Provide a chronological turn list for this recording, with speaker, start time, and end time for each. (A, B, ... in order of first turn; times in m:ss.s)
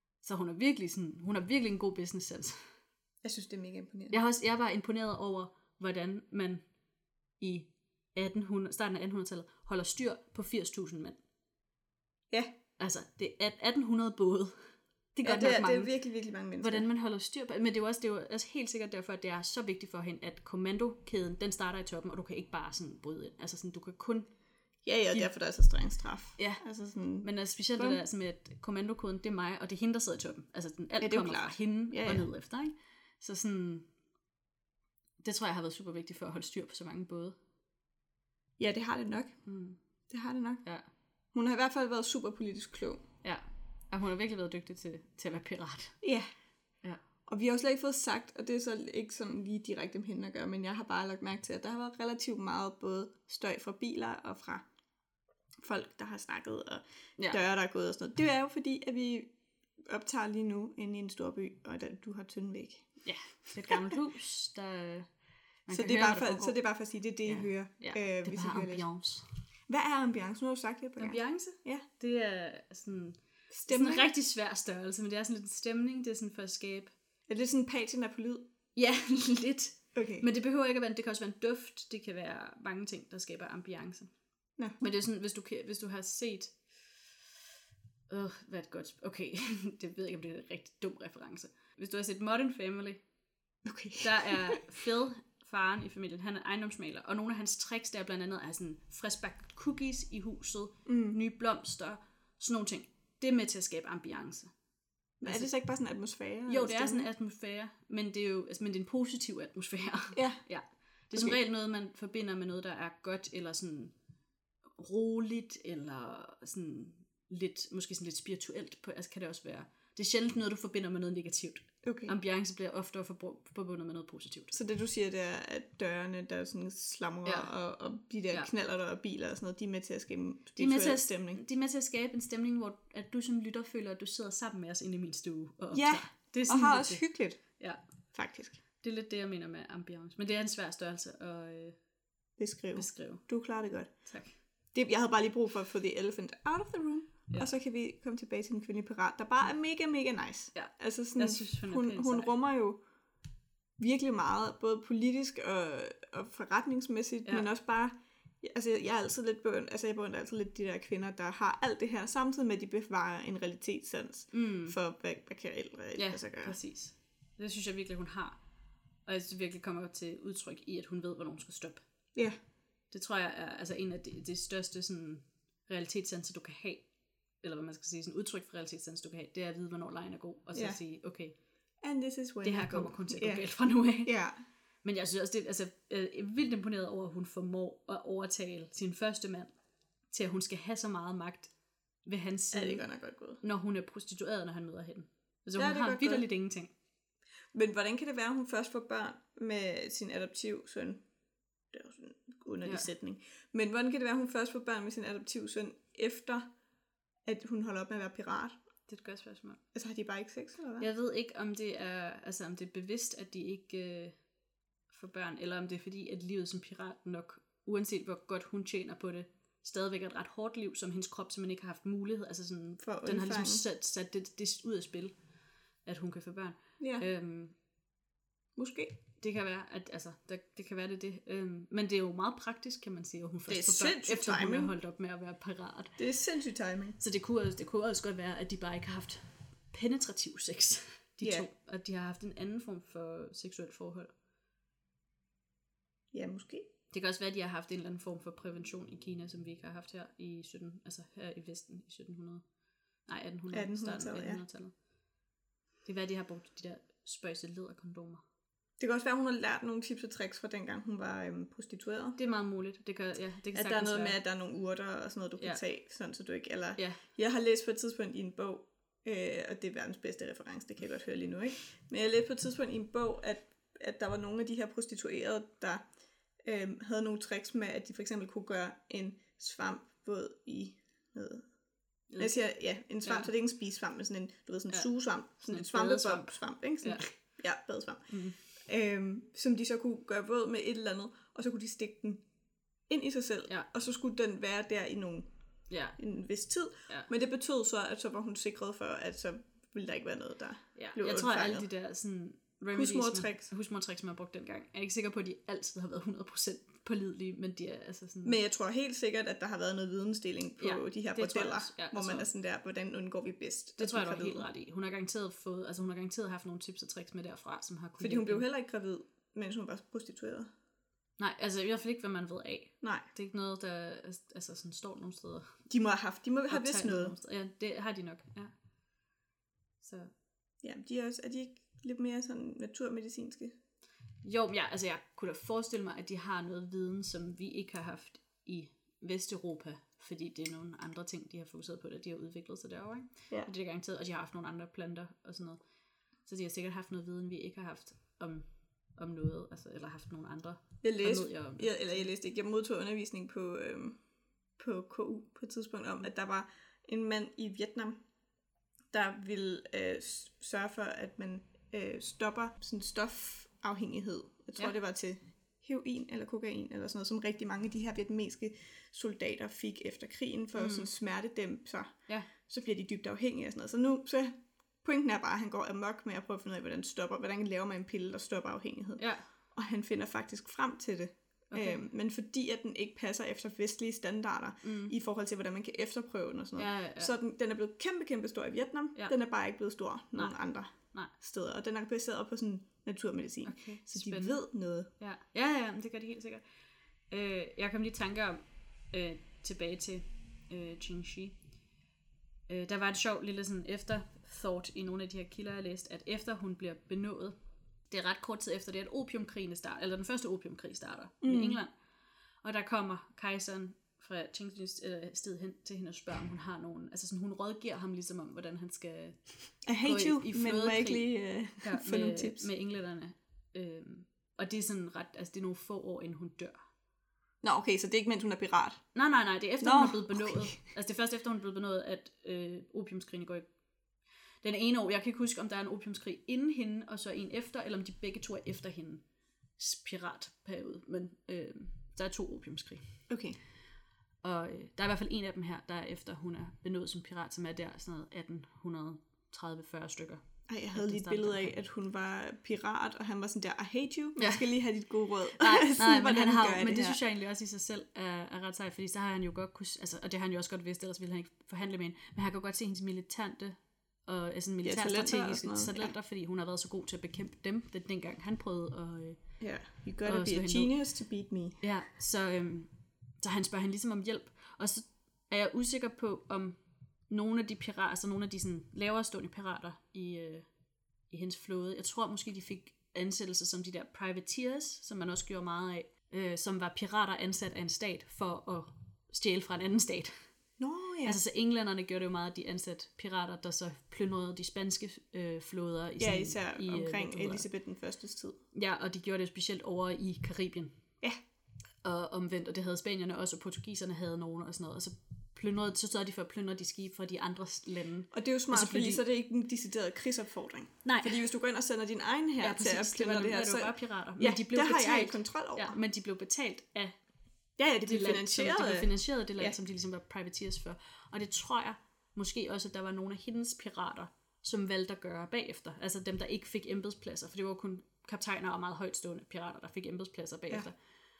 0:00.2-0:02.6 A
0:03.2-0:04.2 B
0:04.1-0:06.6 A
0:07.4-0:11.2 A
0:12.8-0:14.5 A
0:15.1-0:15.9 A
0:15.2-0:16.8 B
0:16.6-0:24.3 A
0:24.8-0:28.0 B
0:26.4-0:26.6 A
0:27.2-0:33.9 A
0:31.0-0:32.3 B
0:35.2-0:37.4 A
0:38.6-0:39.4 B
0:39.4-0:39.8 A
0:40.1-0:40.6 B
0:41.3-0:43.0 B
0:43.2-0:46.0 A
0:46.0-0:46.3 B
0:47.2-0:54.6 B
0:55.6-0:59.3 B
0:59.8-1:02.9 B
1:03.0-1:05.1 A
1:05.6-1:06.6 A
1:05.7-1:08.8 B
1:07.2-1:09.3 A
1:09.7-1:11.8 B
1:11.0-1:16.9 A
1:13.5-1:14.1 B
1:17.3-1:18.4 B
1:18.7-1:24.1 A
1:19.9-1:20.2 B
1:24.8-1:26.6 A
1:28.1-1:33.0 A
1:33.6-1:34.6 B
1:34.0-1:44.5 A
1:40.8-1:41.2 B
1:45.2-1:47.1 B
1:45.2-1:45.5 A
1:46.5-1:53.9 A
1:50.1-1:50.4 B
1:51.1-1:51.4 B
1:54.8-2:04.6 A
2:01.8-2:02.1 B
2:04.5-2:11.4 B
2:07.2-2:07.5 A
2:10.6-2:17.8 A
2:15.7-2:17.4 B
2:18.1-2:18.6 B
2:18.8-2:21.8 A
2:22.4-2:23.9 B
2:22.7-2:23.2 A
2:24.0-2:24.4 A
2:24.7-2:32.8 B
2:30.5-2:32.3 A
2:33.8-2:46.6 B
2:44.3-2:44.8 A
2:46.0-2:48.4 A
2:49.0-2:51.8 A
2:52.9-2:56.9 A
2:57.4-3:01.3 A
3:01.8-3:04.4 B
3:02.4-3:04.1 A
3:04.8-3:09.5 A
3:10.1-3:11.5 A
3:12.0-3:12.8 A
3:12.5-3:13.4 B
3:13.4-3:16.7 A
3:15.6-3:16.2 B
3:17.5-3:21.0 B
3:21.7-3:26.5 B
3:22.6-3:22.9 A
3:27.2-3:28.6 B
3:28.9-3:29.6 A
3:29.7-3:30.9 B
3:30.8-3:34.2 A
3:34.9-3:45.1 A
3:42.8-3:43.6 B
3:45.8-3:47.5 A
3:46.8-3:47.0 B
3:48.6-3:49.0 B
3:49.2-3:56.0 A
3:53.5-3:54.7 B
3:56.0-3:57.0 B
3:57.0-4:04.1 A
4:01.2-4:01.5 B
4:06.1-4:06.7 B
4:06.9-4:12.4 A
4:13.0-4:14.7 A
4:13.5-4:14.4 B
4:15.8-4:18.2 A
4:18.8-4:22.2 B
4:22.2-4:24.2 A
4:23.5-4:35.8 B
4:26.8-4:27.0 A
4:36.4-4:41.5 B
4:42.1-4:42.4 A
4:42.2-4:52.2 B
4:43.0-4:43.3 A
4:44.7-4:47.1 A
4:48.1-4:48.4 A
4:52.9-4:55.3 B
4:55.7-4:56.0 A
4:56.0-5:01.6 B
5:00.8-5:08.3 A
5:02.7-5:03.5 B
5:08.2-5:14.5 B
5:10.6-5:12.3 A
5:13.8-5:18.4 A
5:18.0-5:20.5 B
5:21.2-5:25.6 A
5:22.8-5:23.0 B
5:25.7-5:27.1 B
5:26.5-5:28.5 A
5:29.8-5:30.1 A
5:30.6-5:33.5 B
5:34.2-5:45.6 A
5:46.2-5:52.0 A
5:50.8-5:54.0 B
5:54.6-5:58.0 B
5:58.9-6:34.9 B
6:10.5-6:10.9 A
6:19.0-6:19.3 A
6:21.5-6:21.8 A
6:24.6-6:24.9 A
6:26.6-6:27.1 A
6:30.1-6:31.1 A
6:33.4-6:36.4 A
6:37.1-6:41.4 A
6:42.5-6:47.4 A
6:47.9-6:51.7 A
6:51.2-6:51.6 B
6:52.4-7:06.6 A
6:59.6-7:02.5 B
7:07.4-7:08.9 B
7:08.9-7:13.4 A
7:09.6-7:10.5 B
7:14.4-7:19.0 A
7:19.6-7:23.0 A
7:23.1-7:23.4 B
7:24.2-7:31.5 A
7:30.5-7:37.0 B
7:34.2-7:34.5 A
7:35.3-7:49.4 A
7:44.6-7:45.9 B
7:49.4-7:51.6 B
7:50.0-7:50.7 A
7:51.6-8:00.5 A
8:01.1-8:10.3 A
8:10.6-8:11.2 B
8:11.0-8:17.4 A
8:16.0-8:18.4 B
8:18.5-8:20.8 A
8:21.8-8:29.0 A
8:28.1-8:35.8 B
8:30.8-8:31.2 A
8:32.4-8:37.0 A
8:37.6-8:39.6 B
8:37.8-8:50.8 A